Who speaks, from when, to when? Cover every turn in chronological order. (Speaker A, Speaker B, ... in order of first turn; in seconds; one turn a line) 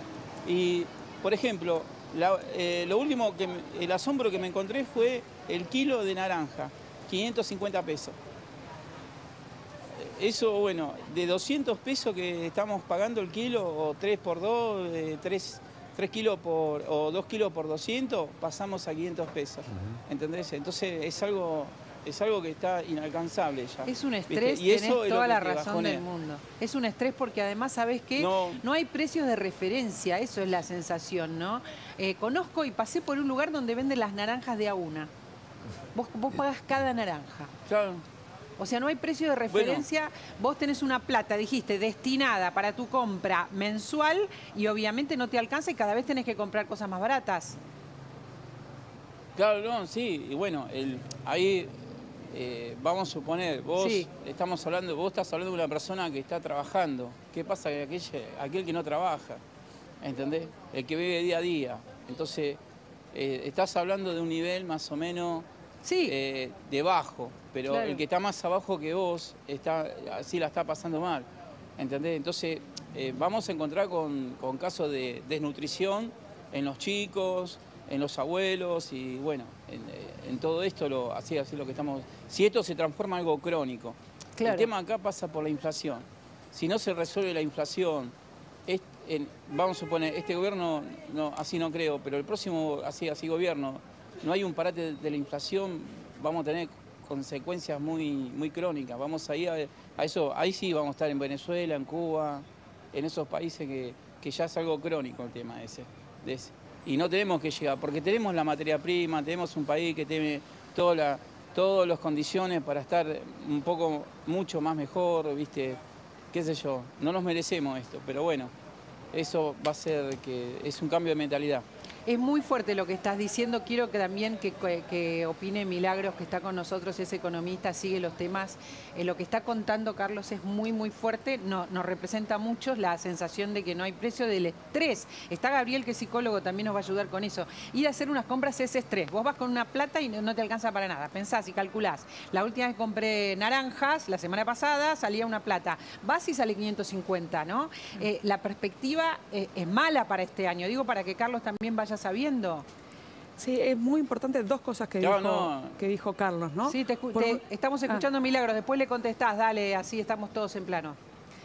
Speaker A: 0.4-8.2
Speaker A: 10.0-26.1
Speaker B: 23.9-35.1
Speaker A: 28.2-28.6
Speaker B: 35.9-37.5
Speaker A: 37.7-38.0
Speaker B: 38.6-47.6
Speaker A: 39.5-39.9
Speaker A: 49.4-59.4
Speaker B: 53.8-54.1
Speaker A: 60.0-62.6
Speaker A: 63.1-65.5
Speaker B: 65.8-66.1
Speaker A: 66.1-71.3
Speaker B: 67.7-68.0
Speaker A: 71.8-88.1
Speaker B: 84.4-84.7
Speaker A: 88.7-115.8
Speaker A: 116.3-118.5
Speaker A: 119.1-121.7
Speaker B: 122.1-152.7
Speaker C: 153.4-158.0
Speaker A: 155.0-155.8
Speaker B: 156.6-161.0